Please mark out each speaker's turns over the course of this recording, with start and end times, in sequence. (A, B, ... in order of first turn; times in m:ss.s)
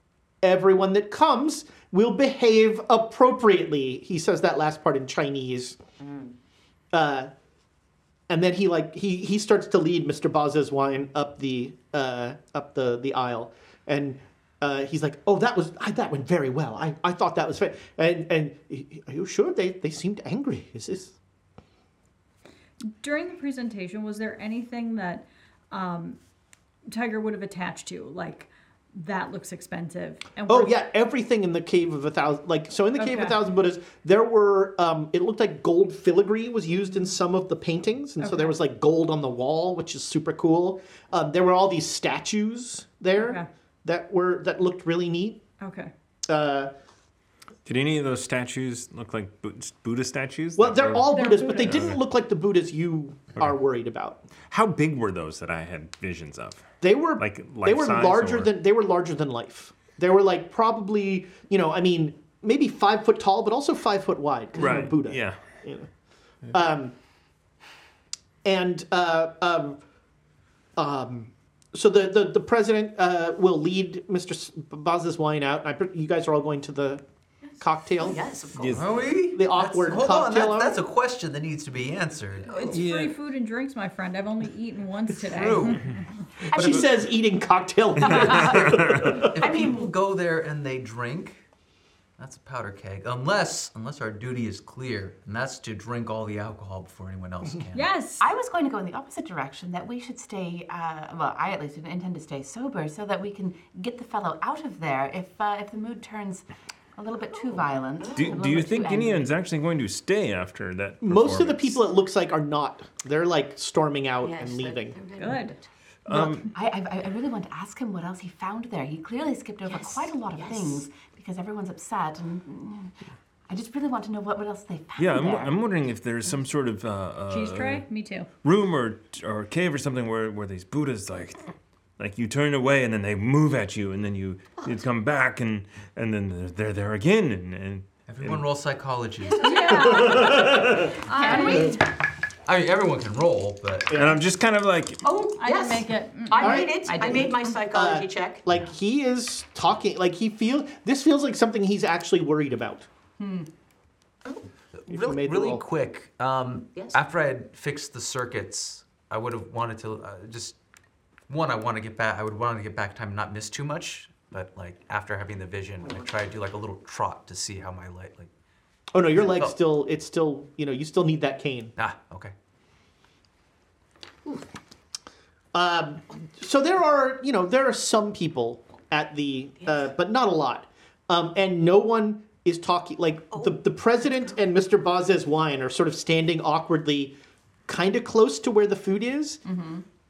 0:00.4-0:05.8 A
0:06.0-0:06.3 B
0:06.9-0:07.3 A
0:08.3-0:21.1 A
0:22.8-0:26.2 C
0:26.9-0:30.7 C
0:30.5-0:45.4 A
0:33.0-0:33.3 C
0:38.2-0:38.5 C
0:43.1-0:43.5 C
0:45.6-0:45.9 C
0:46.3-0:46.7 A
0:47.6-0:52.0 D
0:50.6-0:54.3 A
0:51.0-0:51.9 C
0:54.5-0:56.6 D
0:56.8-1:05.9 A
0:57.2-0:58.5 D
1:04.6-1:05.4 D
1:06.5-1:06.9 A
1:08.4-1:09.8 A
1:10.8-1:17.0 A
1:17.5-1:18.9 B
1:17.6-1:18.2 A
1:18.6-1:19.0 D
1:18.7-1:22.8 E
1:19.3-1:20.8 A
1:22.5-1:26.0 C
1:22.7-1:23.1 D
1:25.2-1:25.9 E
1:26.5-1:29.6 A
1:26.5-1:26.9 E
1:28.0-1:28.7 F
1:28.2-1:29.1 D
1:29.1-1:31.4 E
1:29.4-1:29.9 F
1:32.2-1:37.9 E
1:37.7-1:38.2 C
1:38.2-1:49.4 F
1:48.0-1:48.4 B
1:48.1-1:51.8 D
1:51.0-1:55.0 A
1:54.2-1:55.7 B
1:55.2-1:55.6 C
1:56.0-1:56.5 D
1:56.1-1:56.4 A
1:56.5-2:02.9 F
1:59.6-2:00.8 B
2:03.5-2:05.6 F
2:05.0-2:07.8 D
2:07.3-2:08.3 C
2:08.4-2:11.5 D
2:12.0-2:18.4 D
2:18.1-2:20.2 E
2:19.2-2:20.2 B
2:19.4-2:21.8 C
2:20.0-2:20.9 A
2:21.1-2:21.8 F
2:22.4-2:24.0 E
2:23.9-2:24.2 A
2:23.9-2:25.0 D
2:25.0-2:28.4 B
2:25.4-2:27.4 C
2:26.4-2:26.8 A
2:27.7-2:32.9 A
2:33.2-2:33.5 F
2:34.7-2:40.6 E
2:34.9-2:35.6 A
2:41.3-2:48.3 E
2:48.9-2:51.7 A
2:49.2-2:49.5 E
2:51.8-2:52.3 E
2:55.5-3:07.2 A
3:03.3-3:03.6 B
3:07.7-3:09.4 A
3:09.4-3:09.8 F